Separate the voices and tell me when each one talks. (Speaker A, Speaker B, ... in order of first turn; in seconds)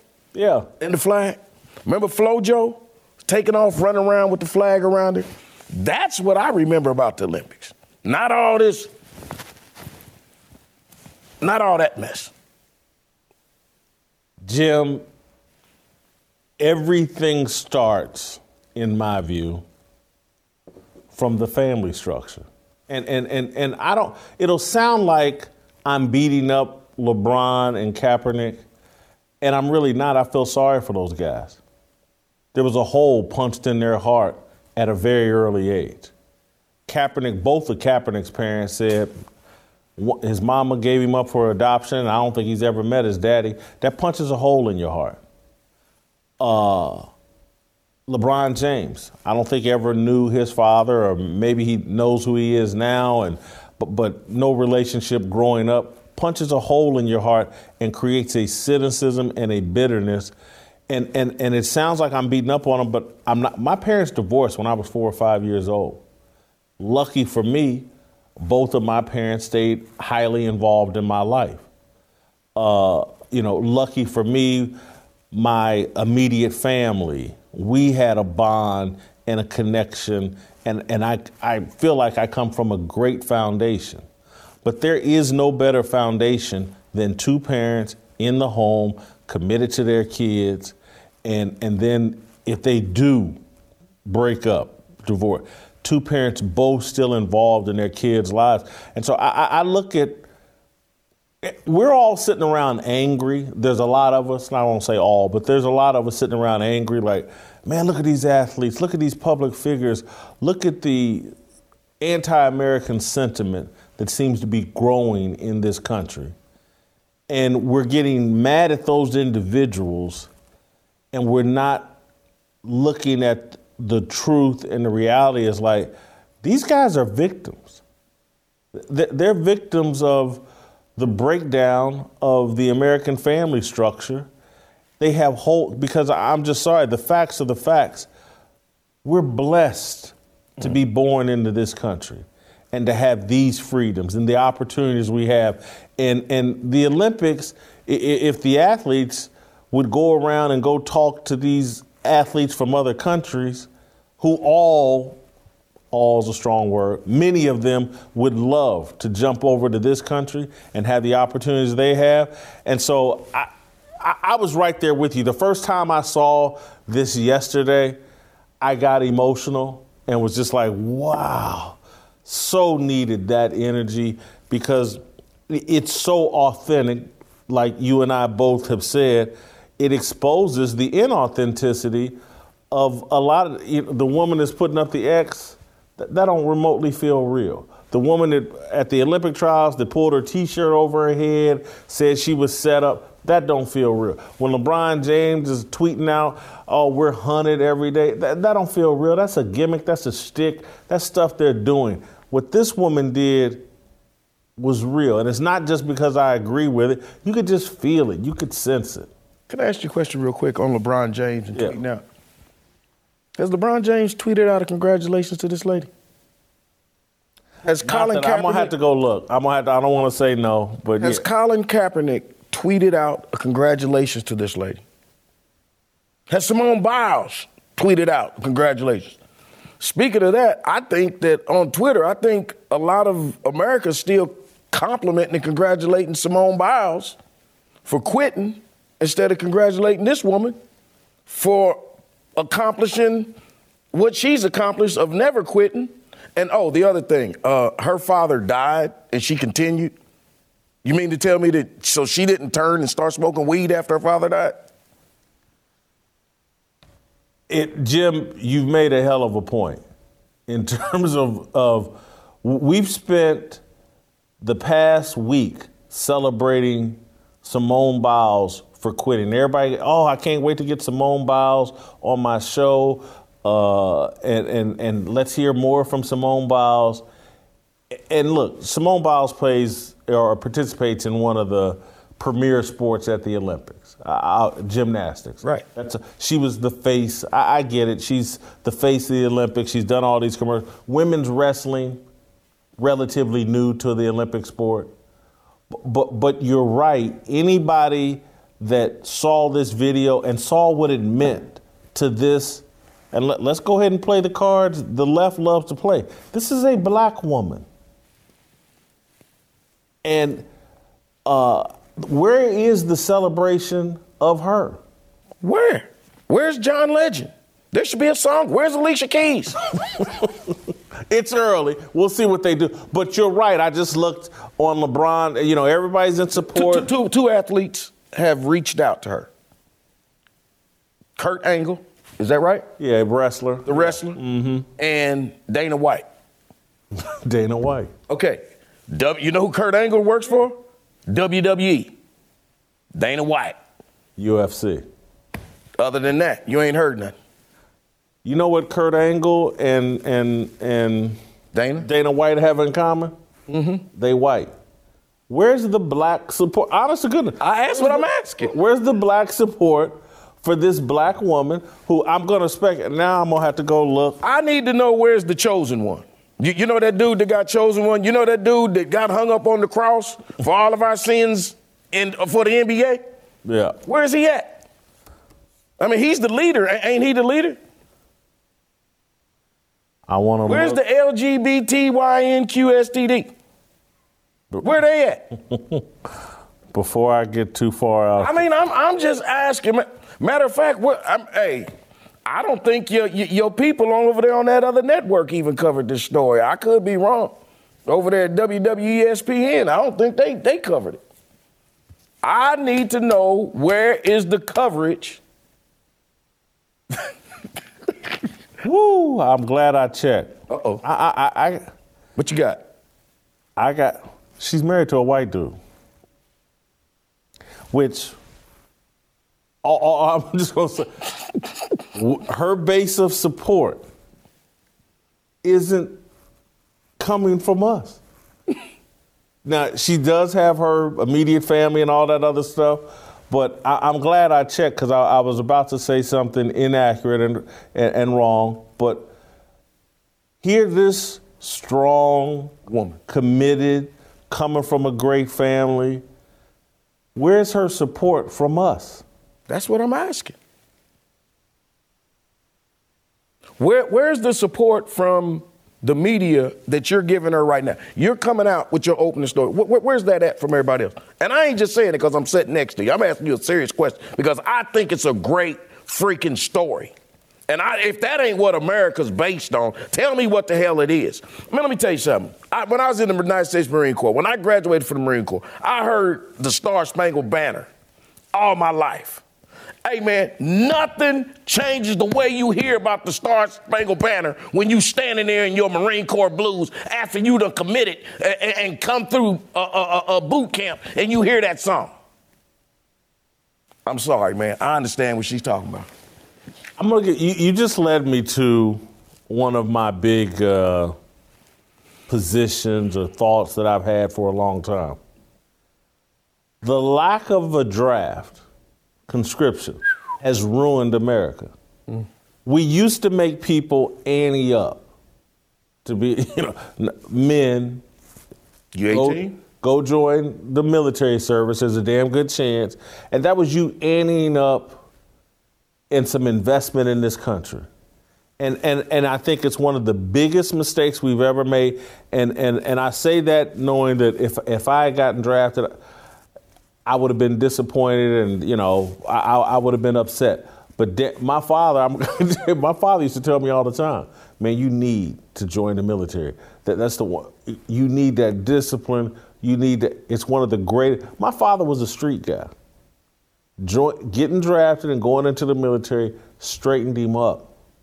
Speaker A: 0.3-0.7, 14.4-15.0, 16.6-19.6, 21.1-28.6, 29.4-31.6, 32.5-36.1, 36.9-39.1, 40.0-45.2, 46.4-47.1, 48.1-60.3, 60.9-66.0, 66.8-67.9, 68.4-71.6, 72.5-74.8, 75.3-84.0, 84.6-93.4, 94.0-100.3, 101.4-111.3, 112.0-116.3, 117.3-120.3, 121.1-122.0, 122.6-125.9, 126.4-127.8, 128.7-130.4, 131.0-134.3, 135.0-138.1, 139.0-153.7, 154.2-155.2, 155.9-163.5, 164.0-168.0, 168.6-182.2, 182.7-203.7, 204.6-209.1, 217.8-221.2, 257.5-259.8, 260.5-263.6, 264.4-277.0, 277.9-292.0, 292.8-294.9, 295.7-307.6, 310.0-310.4, 311.2-314.8, 319.9-320.3, 321.1-326.9, 332.8-334.7, 336.9-337.9, 344.2-344.8, 348.2-351.2, 351.8-353.1, 353.9-354.5, 355.3-364.2, 373.4-373.8, 380.1-380.8, 385.5-385.8, 386.7-388.4, 408.6-411.6, 413.6-415.6, 417.7-418.2, 419.6-420.9, 421.9-423.8, 425.4-426.0, 427.0-428.0, 429.4-439.1, 440.4-446.0, 447.1-449.0, 496.8-500.9, 502.1-505.0, 506.6-508.4, 509.1-511.5, 512.4-514.8, 515.8-517.8, 518.9-524.8, 525.9-527.7, 528.4-535.8, 536.9-552.5, 553.6-557.5
Speaker B: 0.8-8.9, 11.4-12.3, 209.5-212.0, 213.4-215.9, 217.6-218.7, 221.0-224.8, 226.3-229.2, 229.8-237.2, 237.8-240.6, 241.3-241.8, 242.3-243.3, 243.9-249.9, 250.8-254.6, 315.4-319.5, 326.5-329.3, 331.2-332.7, 333.6-334.2, 334.8-336.1, 338.1-341.9, 342.9-343.6, 345.8-347.1, 351.5-351.9, 353.5-353.8, 357.4-358.5, 364.2-373.0, 373.8-374.6, 375.8-377.6, 380.4-383.3, 384.6-385.2, 388.2-391.7, 392.2-397.3, 397.9-401.0, 402.2-405.2, 410.5-410.8, 412.1-412.6, 449.5-450.4, 453.6-466.9, 467.5-477.7, 478.3-479.2, 479.8-491.9, 493.9-495.9, 518.7-519.4